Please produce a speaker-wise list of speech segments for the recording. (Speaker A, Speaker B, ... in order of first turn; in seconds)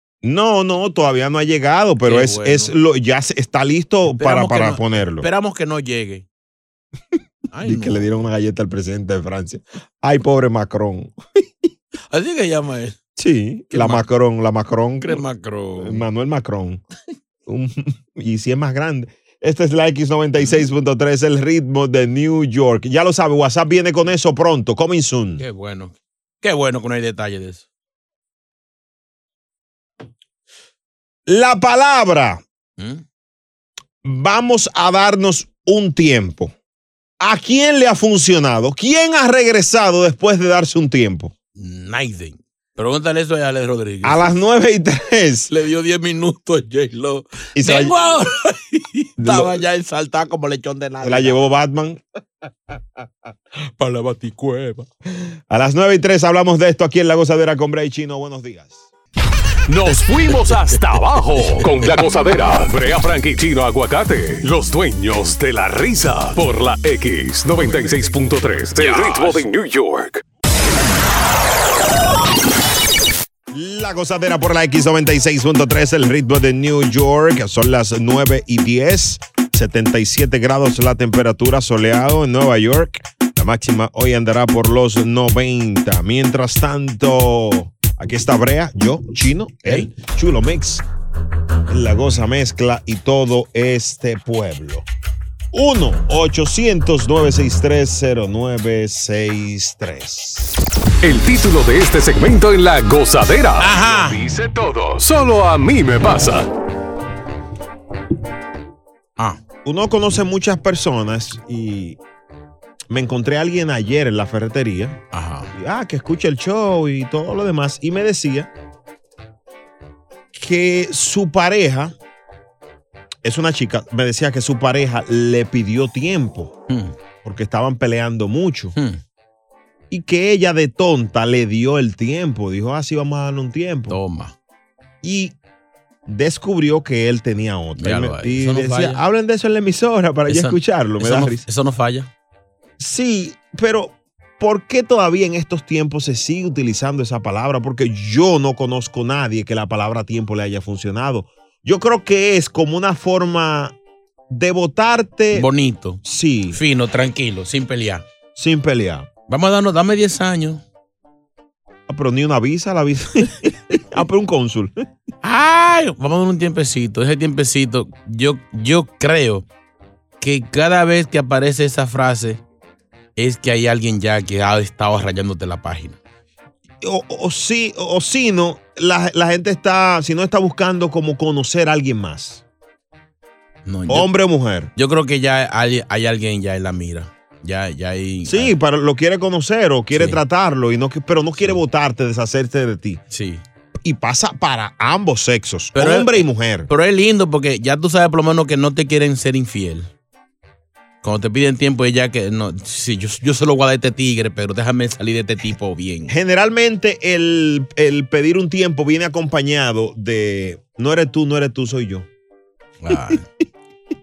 Speaker A: 0.2-5.3, 7.6-11.2, 13.2-15.2, 15.8-16.8, 17.4-25.4, 31.2-32.4, 34.0-36.5, 37.2-41.3, 44.0-45.5, 47.5-47.9, 49.2-49.6, 51.0-52.0, 55.5-58.9, 73.5-90.8, 91.7-94.9, 95.5-100.6, 109.6-112.0, 112.9-115.0, 115.5-118.5, 120.3-121.9, 123.2-126.5, 127.2-128.7, 129.9-134.0, 135.0-135.3, 136.1-141.4, 142.8-153.7, 154.3-155.5, 156.0-156.6, 158.3-159.1, 161.9-164.8, 176.8-182.4, 183.9-184.7, 188.2-193.0, 193.8-196.7, 206.1-212.1, 212.9-213.2
Speaker B: 2.0-2.7, 4.2-6.2, 7.5-8.1, 12.1-13.0, 13.7-14.1, 15.0-16.0, 20.4-20.6, 25.4-27.6, 32.8-33.0, 41.5-44.3, 45.5-51.4, 53.8-54.9, 60.3-60.8, 61.4-61.9, 68.8-69.4, 89.6-89.9, 103.6-104.2, 115.1-115.5, 126.7-126.9, 133.9-134.3, 137.8-139.0, 140.3-142.1, 155.3-158.0, 159.3-160.6, 165.2-169.4, 170.2-172.4, 173.2-176.0, 183.7-184.1, 184.8-188.5, 189.9-190.2, 193.1-193.4, 195.7-199.9, 201.0-206.1, 212.8-213.2
Speaker C: 59.7-70.2, 101.0-106.5